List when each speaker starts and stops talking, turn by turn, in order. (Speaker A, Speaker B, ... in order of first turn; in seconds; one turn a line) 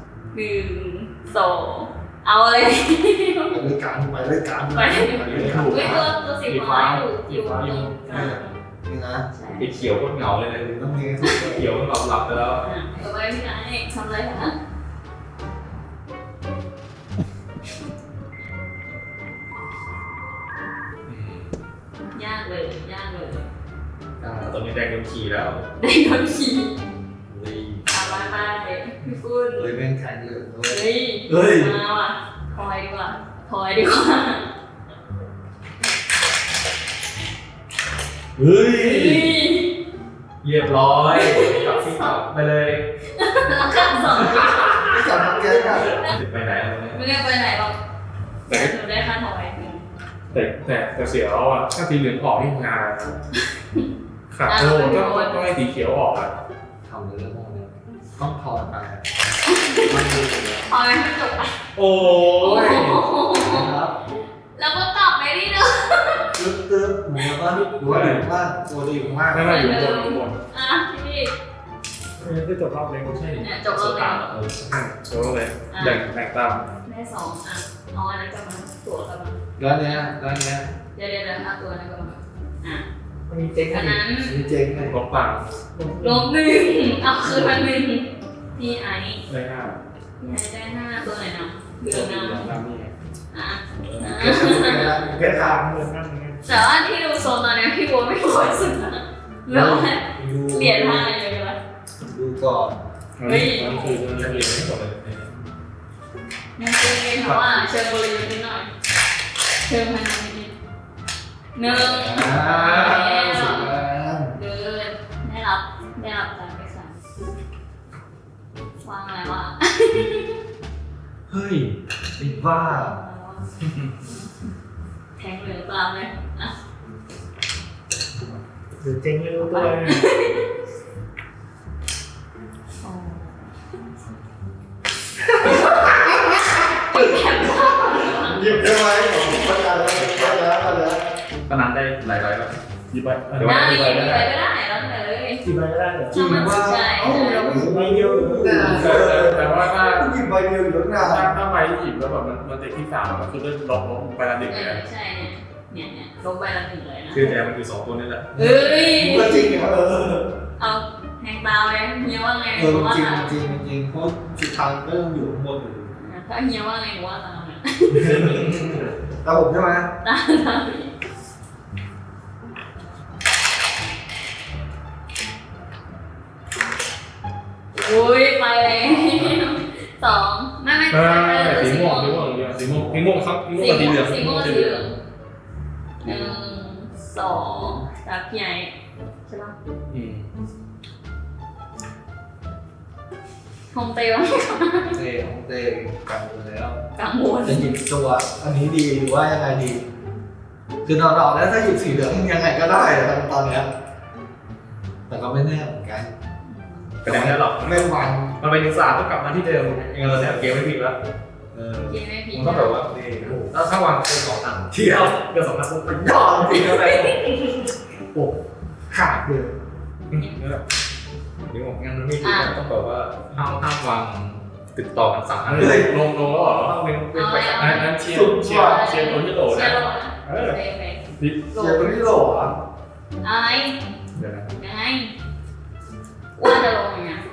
Speaker A: 0.3-3.6
Speaker B: 3.5-6.1
Speaker A: 4.7-8.6
Speaker C: 5.2-8.3
Speaker B: 8.1-9.2
Speaker A: 9.3-9.8
Speaker D: 9.6-12.6
Speaker B: 10.7-11.6
Speaker A: 12.6-14.5
Speaker D: 21.1-21.5
Speaker A: 22.1-23.4
Speaker D: 24.2-25.6
Speaker A: 25.8-26.7
Speaker D: 27.3-27.8
Speaker A: 27.9-29.7
Speaker B: 29.6-31.8
Speaker A: 30.7-34.5
Speaker B: 38.4-39.2
Speaker A: 38.8-39.7
Speaker D: 40.4-42.8
Speaker A: 41.1-42.2
Speaker A: 43.1-46.1
Speaker B: 44.8-46.0
Speaker D: 46.1-47.0
Speaker A: 46.9-47.8
Speaker A: 48.5-49.8
Speaker C: 48.5-48.7
Speaker C: 50.3-53.1
Speaker C: 54.3-56.3
Speaker A: 54.5-55.4
Speaker B: 56.8-59.0
Speaker A: 59.5-60.1
Speaker B: 59.7-60.6
Speaker A: 60.7-61.6
Speaker C: 61.8-63.1
Speaker A: 62.2-63.7
Speaker B: 63.4-63.9
Speaker A: 64.5-66.3
Speaker B: 66.3-69.6
Speaker C: 67.7-68.2
Speaker C: 69.3-70.4
Speaker A: 69.4-71.3
Speaker E: 72.2-72.7
Speaker C: 72.2-76.6
Speaker A: 73.4-74.3
Speaker A: 75.7-76.0
Speaker A: 76.8-79.4
Speaker B: 79.6-80.7
Speaker A: 80.9-82.8
Speaker E: 83.3-84.0
Speaker A: 83.7-84.5
Speaker B: 84.2-85.0
Speaker C: 84.8-85.5
Speaker E: 85.7-86.3
Speaker A: 86.0-89.2
Speaker C: 89.3-89.8
Speaker A: 90.2-92.5
Speaker C: 91.8-92.9
Speaker A: 93.3-95.0
Speaker C: 93.9-94.2
Speaker B: 94.0-95.6
Speaker E: 95.1-96.4
Speaker A: 96.4-101.6
Speaker B: 99.5-101.1
Speaker B: 102.0-102.8
Speaker C: 103.2-105.4
Speaker A: 103.2-104.0
Speaker D: 104.0-104.7
Speaker A: 106.6-108.7
Speaker C: 107.2-107.6
Speaker A: 109.7-110.5
Speaker A: 111.5-113.8
Speaker B: 111.6-114.3
Speaker A: 114.3-117.0
Speaker A: 118.8-120.3
Speaker B: 121.3-123.0
Speaker A: 122.2-123.5
Speaker A: 125.2-126.5
Speaker E: 128.8-130.0
Speaker A: 129.4-130.5
Speaker A: 132.8-133.5
Speaker B: 135.2-141.0
Speaker A: 136.9-138.5
Speaker D: 140.0-140.4
Speaker D: 141.5-142.6
Speaker C: 142.9-144.2
Speaker D: 143.3-144.1
Speaker A: 143.4-145.4
Speaker E: 145.4-149.1
Speaker A: 146.1-147.5
Speaker B: 146.1-151.4
Speaker C: 148.8-150.1
Speaker C: 151.0-154.8
Speaker A: 154.5-157.3
Speaker D: 157.1-158.3
Speaker B: 158.3-160.3
Speaker A: 158.3-159.6
Speaker A: 160.6-163.3
Speaker B: 162.6-166.0
Speaker A: 165.9-168.3
Speaker B: 167.9-169.9
Speaker D: 168.2-168.8
Speaker A: 170.0-170.9
Speaker A: 177.7-182.2
Speaker B: 179.0-179.3
Speaker C: 180.9-184.8
Speaker A: 183.6-184.9
Speaker A: 186.0-188.8
Speaker A: 189.3-189.6
Speaker C: 189.9-190.2
Speaker A: 193.7-195.0
Speaker B: 194.9-196.8
Speaker A: 196.9-197.7
Speaker B: 197.4-199.9
Speaker B: 200.8-203.7
Speaker B: 205.1-206.1
Speaker A: 206.4-207.0
Speaker B: 207.0-208.3
Speaker D: 207.0-210.9
Speaker B: 211.5-212.0
Speaker A: 211.8-212.8
Speaker D: 212.3-216.5
Speaker B: 214.7-215.1
Speaker B: 215.9-217.2
Speaker A: 216.5-217.6
Speaker E: 218.9-219.6
Speaker D: 220.1-220.6
Speaker D: 221.5-225.8
Speaker A: 222.2-222.5
Speaker C: 225.4-226.8
Speaker B: 225.5-225.9
Speaker B: 226.6-228.8
Speaker A: 227.1-232.0
Speaker C: 227.4-230.5
Speaker C: 231.2-231.5
Speaker B: 231.6-232.6
Speaker A: 233.2-233.8
Speaker C: 234.1-234.6
Speaker A: 234.5-235.1
Speaker A: 236.4-237.2